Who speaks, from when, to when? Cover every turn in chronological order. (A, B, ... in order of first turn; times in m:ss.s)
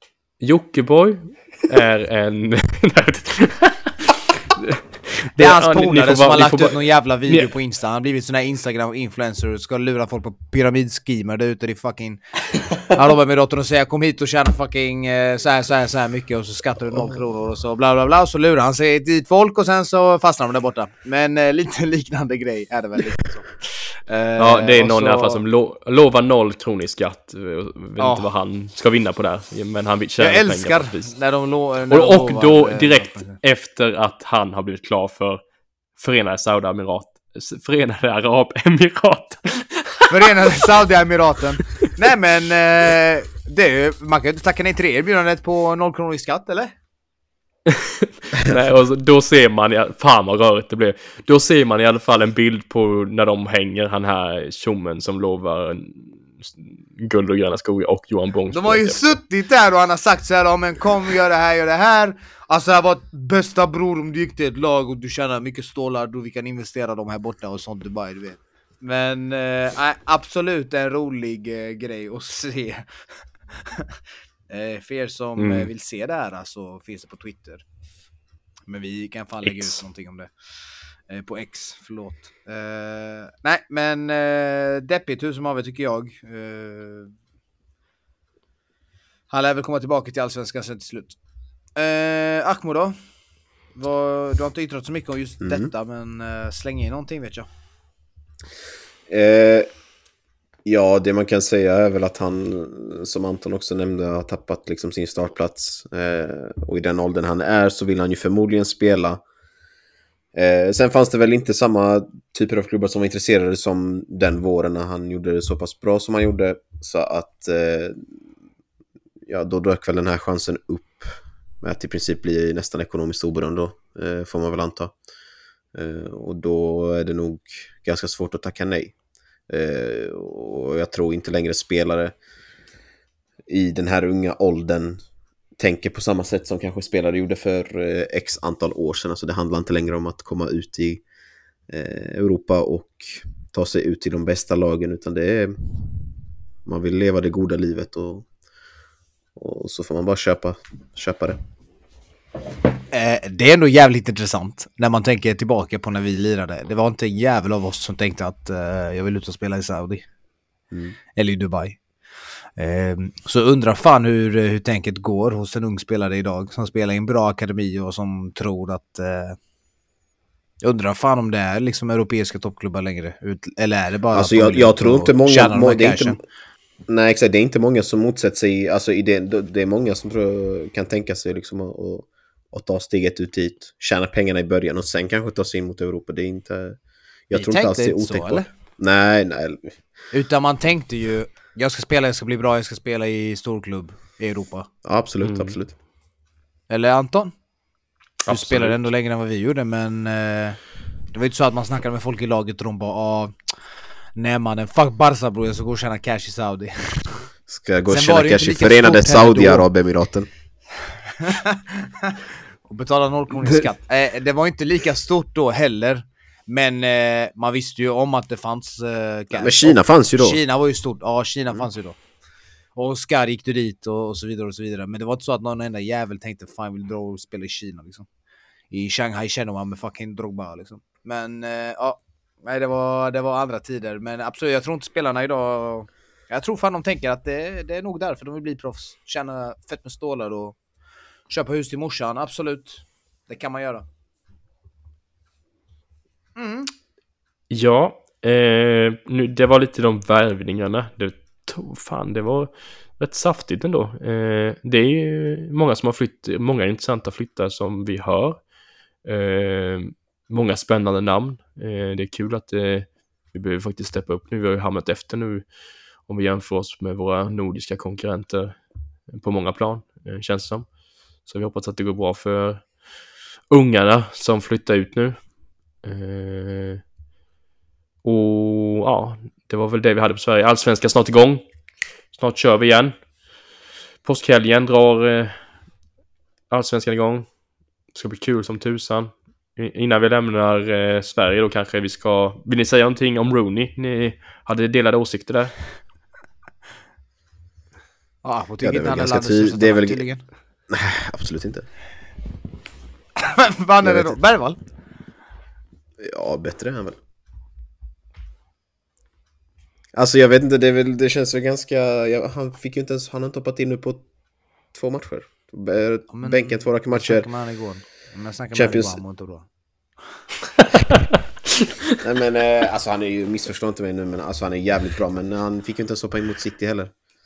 0:00.4-0:07.5 A
0:05.4-0:25.4 B
0:24.4-0:31.1 A
0:28.0-0:28.3 B
0:30.2-0:33.4 B
0:31.9-0:35.4 A
0:36.0-0:40.6 A
0:40.1-0:46.7 B
0:47.7-0:59.2 A
0:58.5-1:14.0 B
1:14.5-1:17.6 B
1:15.4-1:15.7 A
1:18.7-1:27.1 B
1:19.4-1:19.8 A
1:29.3-1:31.2 B
1:31.8-1:33.0 B
1:33.8-1:37.5 B
1:35.4-1:35.7 C
1:39.1-1:39.7 C
1:40.6-1:49.2 C
1:50.3-1:58.1 C
1:59.3-2:04.9 C
2:05.7-2:08.9 C
2:09.5-2:12.2 C
2:13.5-2:15.0 C
2:15.6-2:21.0 C
2:21.7-2:25.6 C
2:26.7-2:28.3 C
2:29.4-2:31.4 C
2:32.9-2:40.0 B
2:40.7-2:41.0 C
2:41.2-2:41.8 B
2:42.6-2:49.4 B
2:50.6-2:56.2 B
2:54.1-2:56.2 C
2:56.9-3:06.8 C
3:07.3-3:09.8 C
3:07.3-3:08.5 B
3:10.1-3:14.7 B
3:14.8-3:15.8 C
3:15.2-3:15.6 A
3:16.7-3:17.4 B
3:18.3-3:18.8 A
3:18.3-3:20.6 B
3:21.1-3:23.4 B
3:24.2-3:27.2 B
3:27.5-3:30.3 C
3:27.9-3:29.7 B
3:31.2-3:42.0 B
3:39.3-3:40.4 C
3:42.8-3:48.1 B
3:48.7-4:00.6 B
4:01.3-4:03.8 B
4:06.4-4:06.7 B
4:07.5-4:18.4 A
4:19.0-4:25.4 A
4:26.1-4:28.6 A
4:29.1-4:30.7 A
4:31.2-4:32.7 A
4:33.5-4:35.2 A
4:35.8-4:36.8 A
4:38.0-4:41.5 A
4:42.1-4:43.0 A
4:44.0-4:45.4 A
4:46.5-4:47.3 A
4:47.9-4:55.5 A
4:58.2-5:00.2 B
4:58.6-5:00.0 C
5:00.7-5:01.7 C
5:03.2-5:04.7 B
5:03.8-5:04.2 C
5:06.0-5:07.0 C
5:09.9-5:14.0 C
5:14.7-5:17.3 C
5:16.1-5:19.5 B
5:18.5-5:19.0 C
5:22.0-5:26.9 C